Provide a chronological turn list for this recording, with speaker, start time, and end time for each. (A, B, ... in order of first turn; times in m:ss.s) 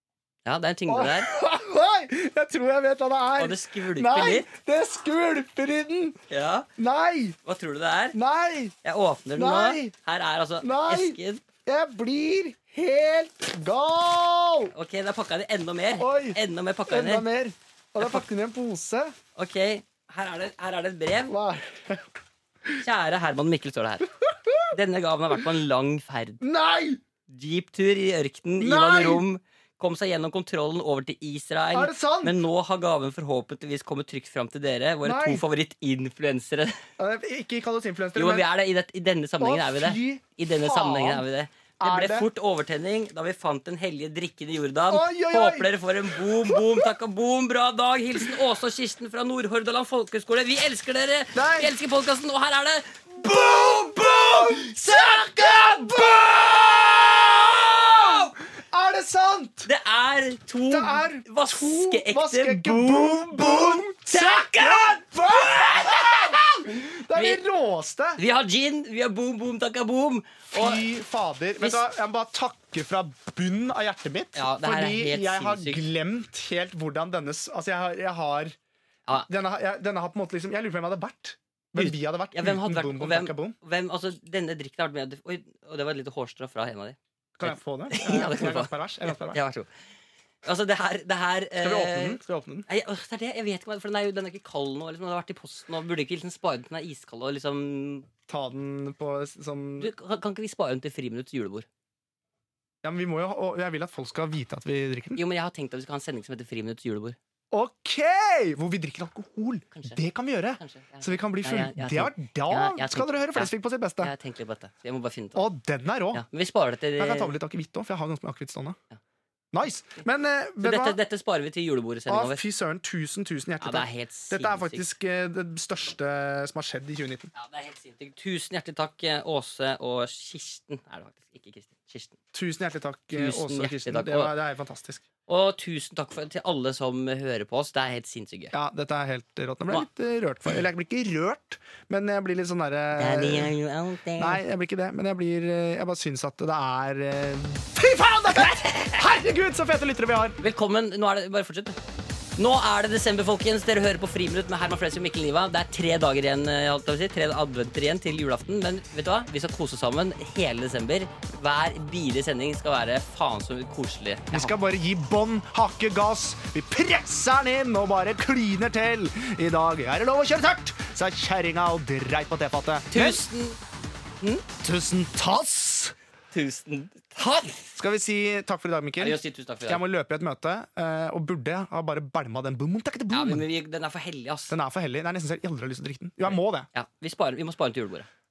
0:00.4-0:01.3 A
0:00.9-0:06.2 B
0:03.4-0:04.5 A
0:06.3-0:06.7 A
0:06.8-0:07.4 B
0:07.4-0:08.2 A
0:08.1-0:08.7 B
0:08.8-0:11.4 A
0:09.4-0:09.9 B
0:10.6-0:14.7 B
0:14.7-0:17.2 A
0:16.0-0:19.1 B
0:18.0-0:18.2 A
0:19.3-0:21.3 A
0:21.3-0:22.0 B
0:22.7-0:24.1 A
0:24.3-0:24.7 B
0:24.7-0:26.4 A
0:26.4-0:27.0 B
0:27.3-0:36.8 A
0:28.6-0:29.2 B
0:31.7-0:32.4 B
0:35.0-0:35.4 B
0:37.0-0:38.5 B
0:38.1-0:53.0 A
0:39.4-0:41.3 B
0:41.8-0:42.3 B
0:44.9-0:46.9 B
0:51.3-0:51.7 B
0:53.1-0:59.7 B
0:54.9-0:56.1 A
0:58.0-0:58.3 A
0:59.6-1:07.4 A
1:00.7-1:08.2 B
1:08.2-1:10.9 A
1:10.5-1:18.6 B
1:14.3-1:15.9 A
1:19.3-1:23.6 B
1:21.8-1:29.7 A
1:27.4-1:29.4 B
1:30.4-1:38.1 A
1:31.6-1:32.7 B
1:38.3-1:39.9 B
1:39.8-1:41.6 A
1:42.8-1:45.2 B
1:45.2-1:47.2 A
1:47.5-1:54.1 B
1:49.7-1:50.0 A
1:50.6-1:55.5 A
1:55.3-1:56.2 B
1:56.1-1:57.3 A
1:57.0-1:58.8 B
1:59.5-2:01.0 B
2:00.6-2:02.4 A
2:02.1-2:07.3 B
2:03.6-2:04.9 A
2:07.3-2:12.1 A
2:12.3-2:15.0 B
2:13.1-2:14.3 A
2:15.3-2:18.5 A
2:18.5-2:23.5 B
2:22.9-2:24.4 A
2:24.2-2:30.4 B
2:30.4-2:31.8 A
2:32.4-2:44.6 A
2:44.3-2:53.2 B
2:52.9-2:53.6 A
2:54.6-2:56.0 B
2:56.3-2:57.7 A
2:57.8-3:03.4 B
2:59.0-2:59.8 A
3:03.1-3:04.6 A
3:04.5-3:06.7 B
3:06.3-3:08.1 A